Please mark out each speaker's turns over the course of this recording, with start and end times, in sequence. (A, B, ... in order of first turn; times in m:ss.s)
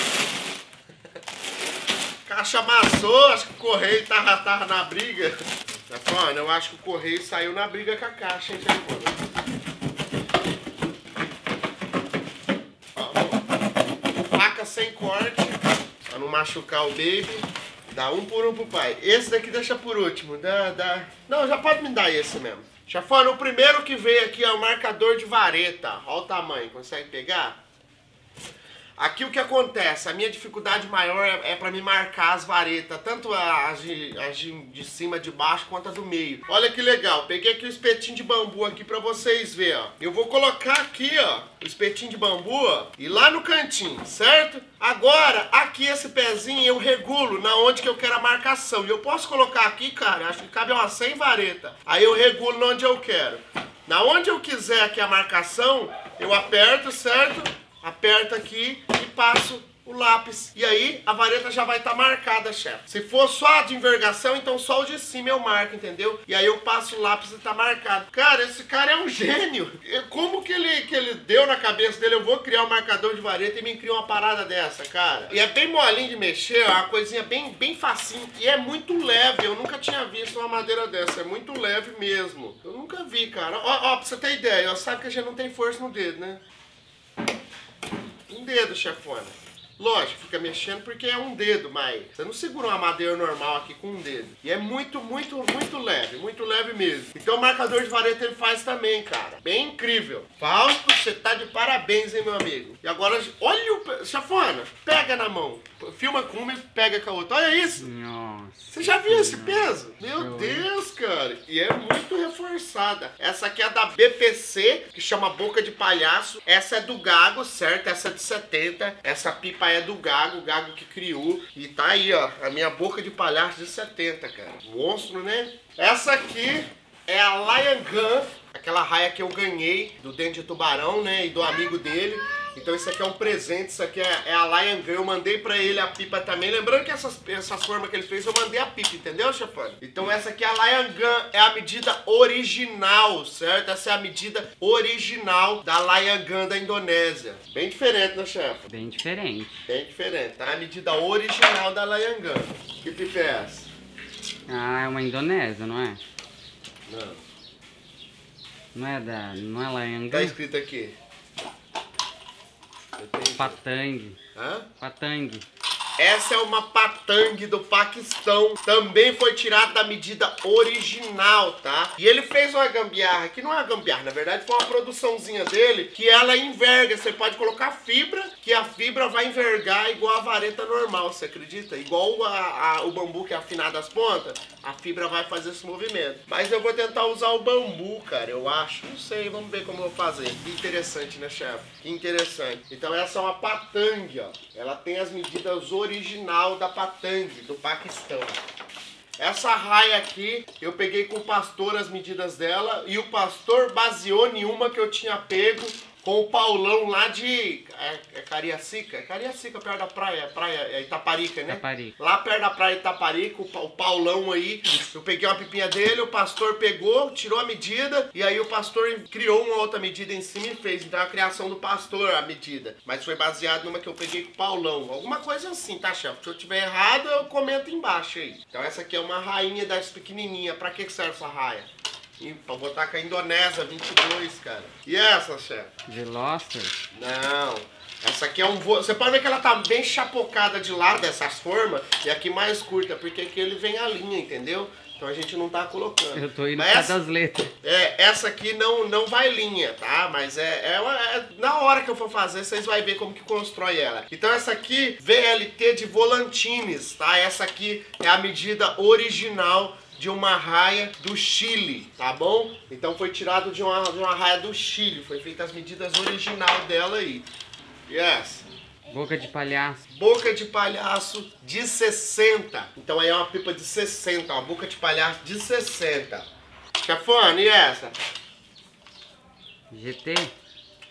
0:02.2-0:09.2 A
0:13.0-0:13.4 A
0:14.1-0:27.6 A
0:29.0-1:26.4 A
1:28.3-1:47.8 A
1:47.8-1:50.7 B
1:48.7-2:28.7 A
2:28.7-2:29.6 B
2:29.7-2:33.7 A
2:34.5-2:36.0 B
2:36.9-2:37.2 A
2:38.7-2:40.3 B
2:40.1-2:40.9 A
2:43.0-2:43.6 A
2:43.3-2:44.2 B
2:44.3-2:44.7 A
2:44.8-2:45.4 B
2:46.0-3:18.4 A
3:19.2-3:51.7 A
3:31.5-3:31.9 B
3:52.2-3:55.7 A
3:55.9-3:56.8 B
3:56.9-4:07.0 A
4:06.1-4:07.5 B
4:07.6-4:27.3 A
4:27.9-4:28.4 A
4:28.9-4:29.8 B
4:29.9-4:36.2 A
4:36.8-4:37.9 A
4:39.7-4:40.3 B